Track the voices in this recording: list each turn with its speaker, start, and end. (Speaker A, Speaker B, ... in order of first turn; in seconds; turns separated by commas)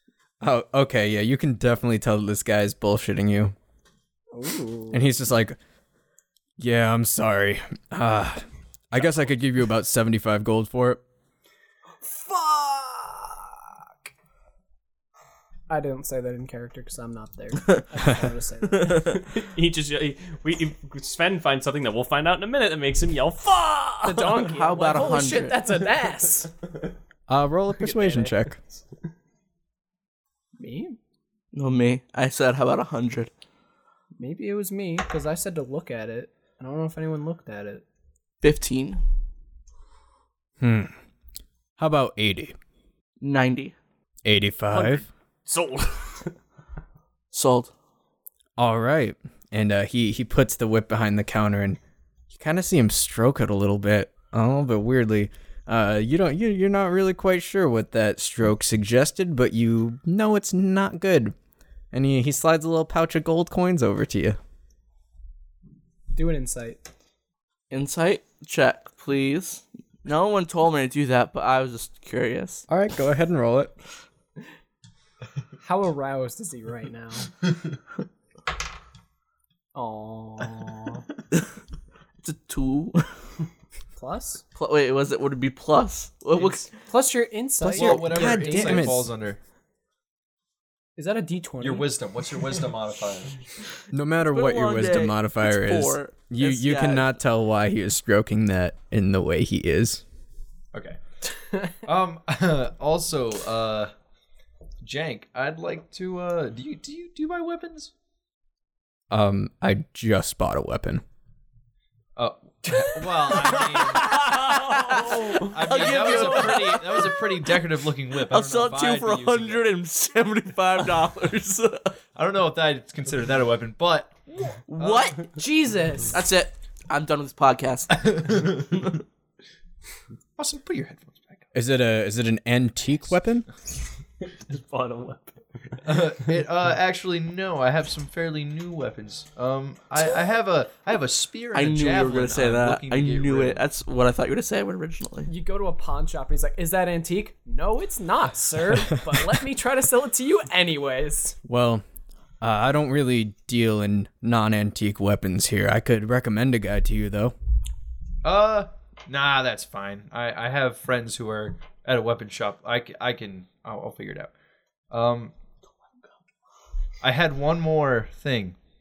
Speaker A: 0.4-3.5, Speaker B: 4.3-5.1, Speaker A: 4.9-5.6, Speaker A: 6.6-11.0, Speaker B: 12.0-14.1, Speaker B: 15.7-19.1, Speaker C: 18.8-19.1, Speaker D: 18.9-25.0, Speaker B: 24.0-26.5, Speaker C: 24.5-25.6, Speaker A: 27.3-28.6, Speaker D: 27.8-28.5, Speaker B: 30.6-31.0, Speaker C: 31.5-33.3, Speaker B: 34.2-37.8, Speaker C: 38.4-39.0, Speaker A: 40.6-40.9, Speaker A: 41.8-42.6, Speaker C: 43.2-43.8, Speaker A: 44.2-45.0, Speaker D: 44.7-46.3, Speaker C: 47.3-47.7, Speaker A: 48.6-51.8, Speaker A: 52.3-61.4, Speaker A: 61.9-64.4, Speaker B: 66.1-66.9, Speaker C: 67.7-72.7, Speaker A: 72.7-73.7, Speaker B: 75.6-77.4, Speaker B: 79.7-81.1, Speaker C: 82.2-83.1, Speaker B: 84.0-84.4, Speaker C: 84.5-86.7, Speaker B: 86.7-89.0, Speaker A: 87.6-89.1, Speaker E: 87.7-89.4, Speaker B: 91.0-92.0, Speaker E: 91.6-93.4, Speaker A: 93.9-100.0, Speaker C: 94.2-97.1, Speaker E: 100.7-101.0, Speaker E: 101.7-103.9, Speaker E: 104.8-107.9, Speaker A: 109.1-111.0, Speaker E: 112.2-114.2, Speaker D: 114.0-116.4, Speaker C: 114.4-117.5, Speaker E: 115.0-119.6, Speaker C: 118.3-122.0, Speaker E: 122.2-125.3, Speaker C: 124.7-125.3, Speaker B: 125.3-126.2, Speaker C: 126.1-129.0, Speaker E: 127.9-129.0, Speaker E: 130.4-131.5, Speaker A: 131.5-133.5, Speaker D: 134.5-135.8, Speaker E: 135.8-143.6, Speaker C: 141.5-145.3, Speaker B: 145.3-151.4, Speaker A: 151.5-151.8, Speaker A: 152.4-157.3, Speaker E: 158.2-164.3, Speaker E: 164.9-165.3, Speaker E: 167.0-168.6